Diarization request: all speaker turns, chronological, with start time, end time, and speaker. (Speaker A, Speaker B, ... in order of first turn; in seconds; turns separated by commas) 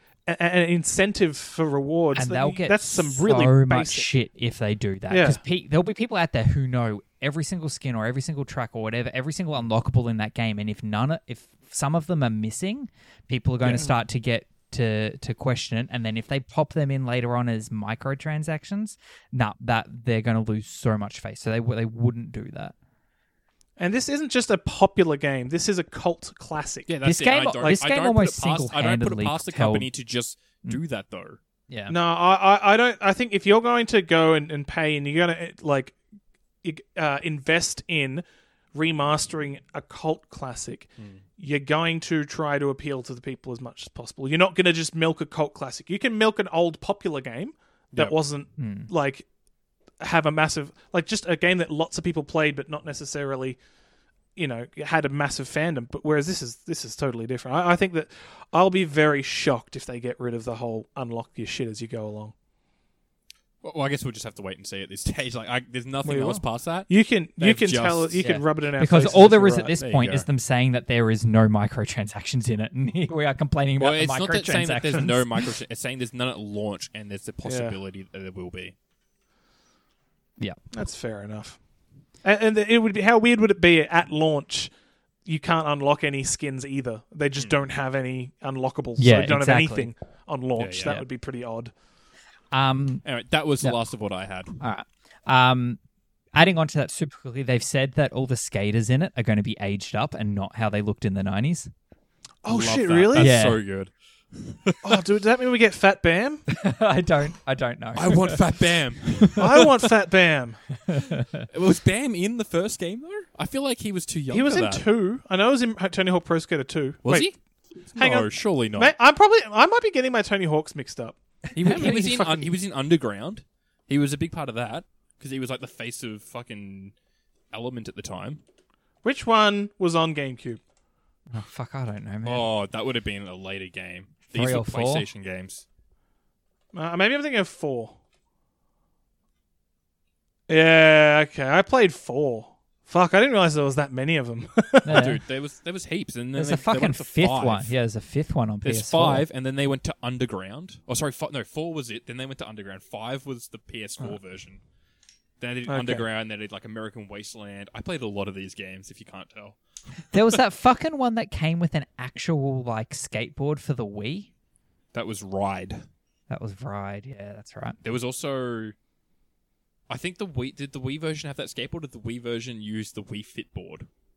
Speaker A: 0.3-4.1, Speaker B: 2.1-22.7, Speaker A: 5.1-5.4, Speaker A: 13.6-13.9, Speaker A: 23.8-26.9, Speaker C: 26.9-31.4, Speaker B: 27.0-29.9, Speaker B: 31.7-32.0, Speaker A: 31.9-36.0, Speaker A: 36.6-49.3, Speaker B: 48.6-48.9, Speaker A: 50.0-53.6, Speaker A: 54.4-62.3, Speaker C: 63.6-68.2, Speaker A: 66.0-69.8, Speaker B: 68.2-75.2, Speaker C: 69.8-70.3, Speaker C: 73.8-78.8, Speaker A: 77.5-77.8, Speaker A: 80.7-81.6, Speaker A: 82.2-84.7, Speaker A: 85.2-91.7, Speaker B: 89.0-89.9, Speaker C: 90.6-91.0, Speaker B: 92.5-93.0, Speaker C: 93.0-94.6, Speaker B: 94.6-95.8, Speaker B: 96.3-101.7, Speaker A: 102.4-103.3, Speaker C: 102.5-105.0, Speaker B: 103.2-103.6, Speaker A: 104.8-106.5, Speaker B: 106.5-108.5, Speaker C: 108.0-109.7, Speaker A: 109.4-110.7, Speaker B: 110.9-111.4, Speaker C: 111.5-114.9, Speaker A: 114.3-117.3, Speaker C: 117.0-117.4, Speaker C: 117.9-118.9, Speaker A: 117.9-122.4, Speaker B: 121.5-122.4, Speaker C: 121.6-126.9, Speaker C: 127.5-128.4, Speaker A: 129.0-130.6, Speaker B: 131.3-132.5, Speaker C: 132.2-135.7, Speaker B: 134.3-135.1, Speaker A: 136.7-138.0, Speaker A: 140.5-145.1, Speaker B: 144.8-145.2, Speaker C: 144.9-147.7, Speaker B: 146.4-149.3, Speaker C: 148.6-154.6, Speaker C: 155.4-160.1, Speaker A: 155.7-156.1, Speaker B: 160.1-164.3, Speaker C: 164.9-165.9, Speaker B: 166.3-167.8, Speaker C: 167.8-168.8, Speaker C: 169.9-173.9